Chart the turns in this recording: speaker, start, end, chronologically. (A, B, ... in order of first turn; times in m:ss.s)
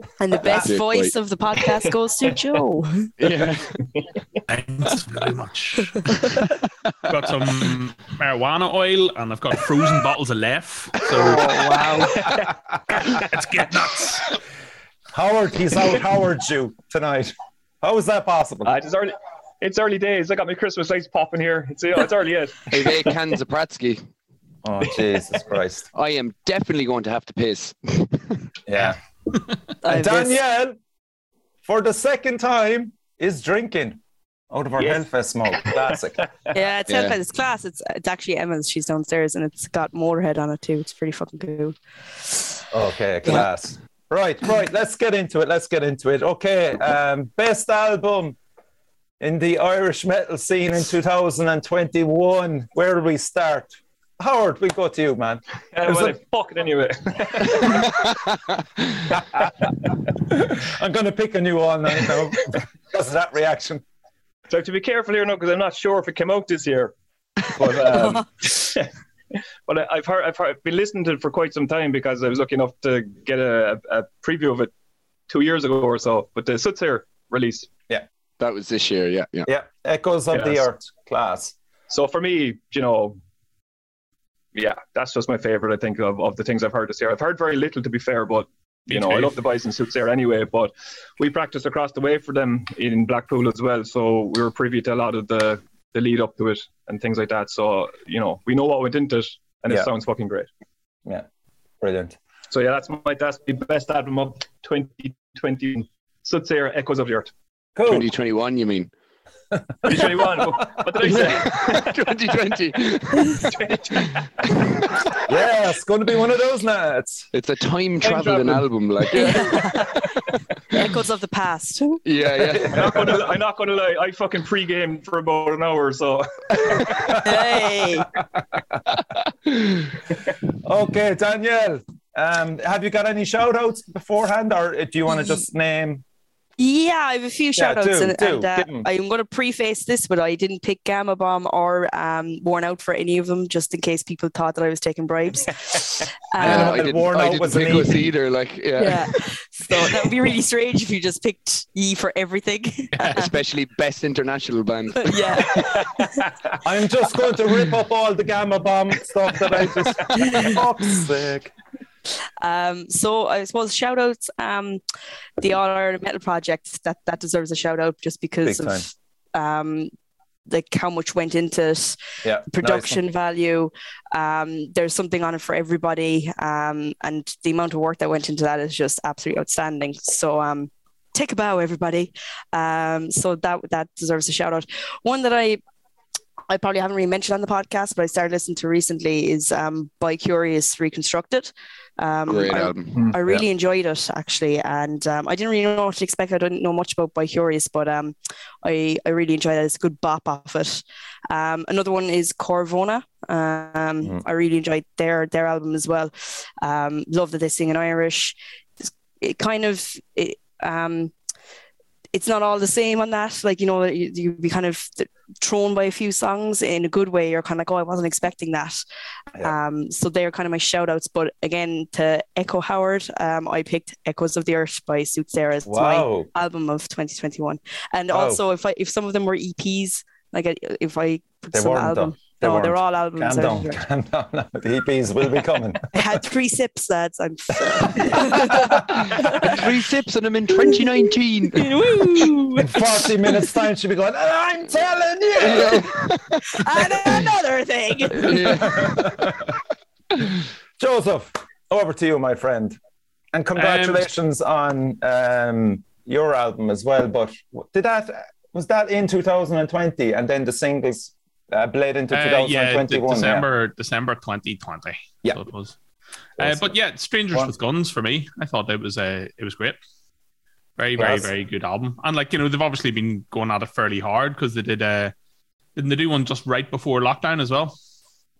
0:00.2-0:03.1 A
0:00.4-0:01.1 B
0:03.2-0:03.9 B
0:04.5-0:06.2 C
0:07.1-0:11.5 C
0:11.3-0:12.2 A
0:11.9-0:12.5 D
0:13.0-0:14.4 C
0:15.1-0:18.7 E
0:18.6-0:23.1 D
0:22.7-0:24.0 B
0:24.6-0:25.9 E
0:25.9-0:28.4 B
0:28.6-0:29.0 E
0:29.8-0:30.4 A
0:29.8-0:30.8 E
0:31.6-0:36.2 E
0:34.8-0:35.0 D
0:35.6-0:36.5 D
0:36.5-0:41.8 A
0:36.9-0:37.2 B
0:42.7-0:48.4 E
0:49.2-0:56.1 E
0:55.7-0:58.0 D
1:00.2-1:03.8 E
1:04.5-1:06.9 D
1:07.5-1:14.7 D
1:15.3-1:17.7 D
1:18.4-1:19.5 B
1:19.4-1:21.6 E
1:20.3-1:20.6 D
1:21.9-1:23.2 D
1:24.5-1:40.5 D
1:28.9-1:29.3 C
1:41.8-1:42.2 E
1:42.5-1:47.3 D
1:47.8-1:48.1 E
1:47.8-1:48.9 B
1:49.8-1:52.1 D
1:51.0-1:53.6 B
1:53.3-1:54.6 D
1:54.6-1:55.1 B
1:55.2-1:57.3 E
1:57.3-2:00.0 B
1:58.0-1:58.7 D
1:59.1-2:00.0 A
1:59.3-1:59.8 D
2:00.7-2:02.0 A
2:02.0-2:02.8 B
2:02.4-2:03.2 E
2:02.6-2:07.3 D
2:06.8-2:07.2 E
2:07.2-2:08.1 A
2:10.6-2:16.0 E
2:16.6-2:26.8 A
2:17.6-2:18.9 E
2:26.4-2:28.1 E
2:26.4-2:29.1 B
2:28.8-2:33.4 A
2:33.0-2:35.4 B
2:34.9-2:36.2 A
2:35.6-2:36.3 D
2:36.6-2:41.5 E
2:40.1-2:40.6 A
2:42.4-2:44.8 A
2:45.4-2:49.9 A
2:48.4-2:48.8 E
2:50.5-3:05.6 A
2:52.2-2:53.0 E
3:06.5-3:31.1 A
3:12.3-3:13.1 B
3:32.1-3:38.8 A
3:39.4-3:53.8 A
3:45.6-3:46.3 E
3:48.1-3:48.4 E
3:51.5-3:56.0 E
3:55.9-3:59.6 A
3:57.9-3:59.6 E
3:59.3-4:01.7 B
4:01.5-4:03.0 A
4:02.6-4:05.9 E
4:05.4-4:06.6 B
4:06.5-4:08.6 A
4:06.8-4:07.2 E
4:08.2-4:09.2 B
4:08.2-4:09.5 E
4:10.8-4:12.8 E
4:13.3-4:23.5 E
4:13.5-4:14.1 C
4:22.1-4:25.8 C
4:26.4-4:29.8 C
4:26.4-4:26.8 E
4:30.8-4:35.1 C
4:31.0-4:31.3 E
4:35.8-4:37.7 C